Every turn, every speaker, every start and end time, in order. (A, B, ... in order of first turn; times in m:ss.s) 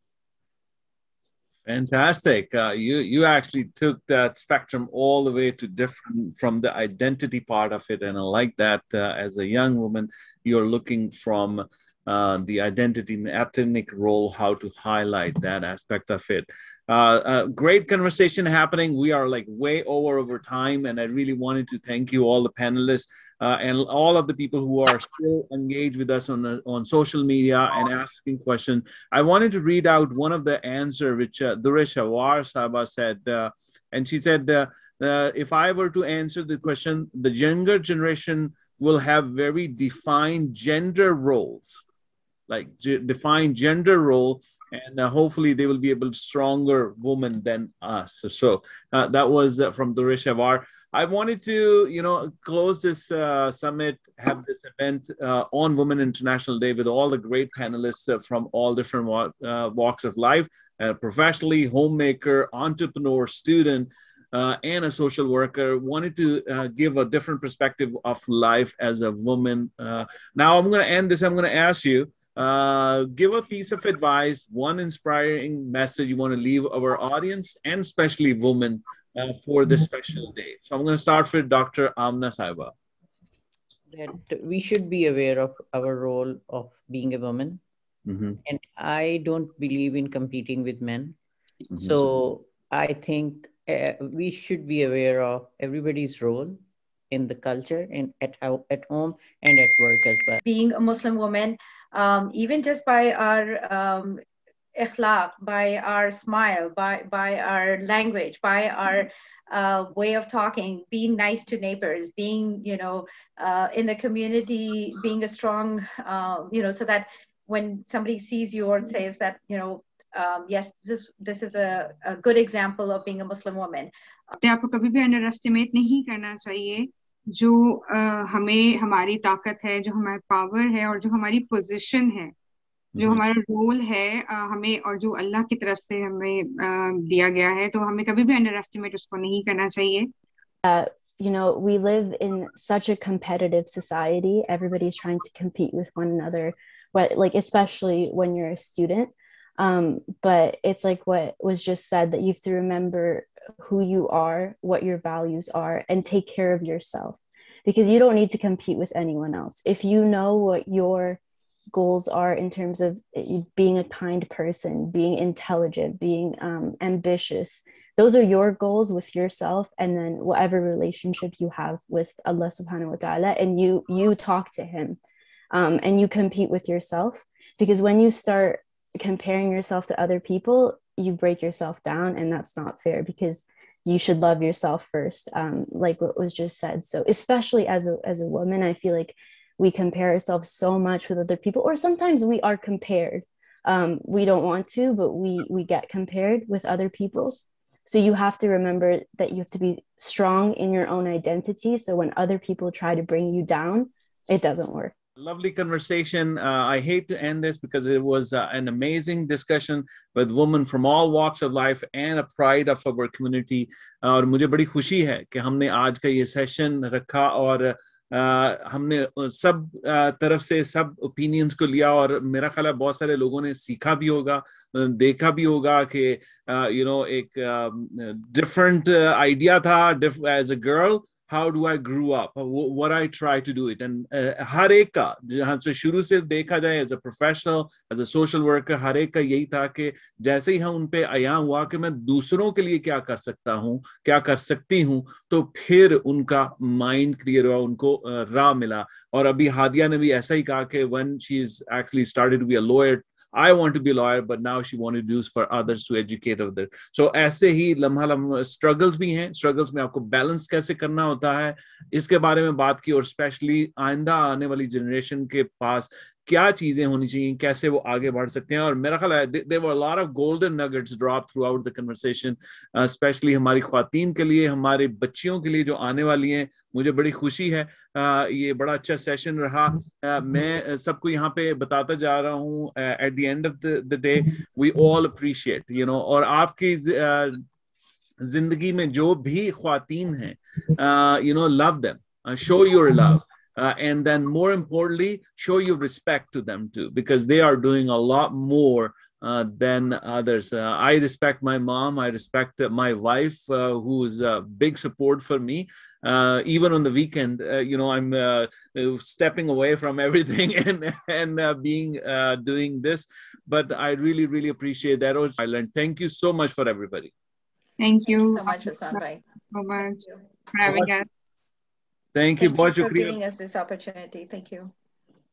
0:01.7-0:41.7 A
0:42.5-1:22.7 A
1:23.9-1:27.6 B
1:28.1-1:28.4 A
1:28.4-1:31.2 B
1:31.7-1:32.1 A
1:31.8-1:40.4 B
1:40.4-1:44.2 C
1:44.8-2:03.9 C
2:04.4-2:12.3 D
2:13.0-2:20.1 D
2:20.6-2:41.2 E
2:41.7-2:55.0 E
2:55.5-3:24.9 E
3:25.2-4:47.4 A
4:48.2-5:17.1 A
5:17.8-5:19.0 D
5:18.2-5:19.2 C
5:19.5-5:21.1 D
5:20.6-5:20.9 A
5:22.1-5:23.2 A
5:22.4-5:24.7 C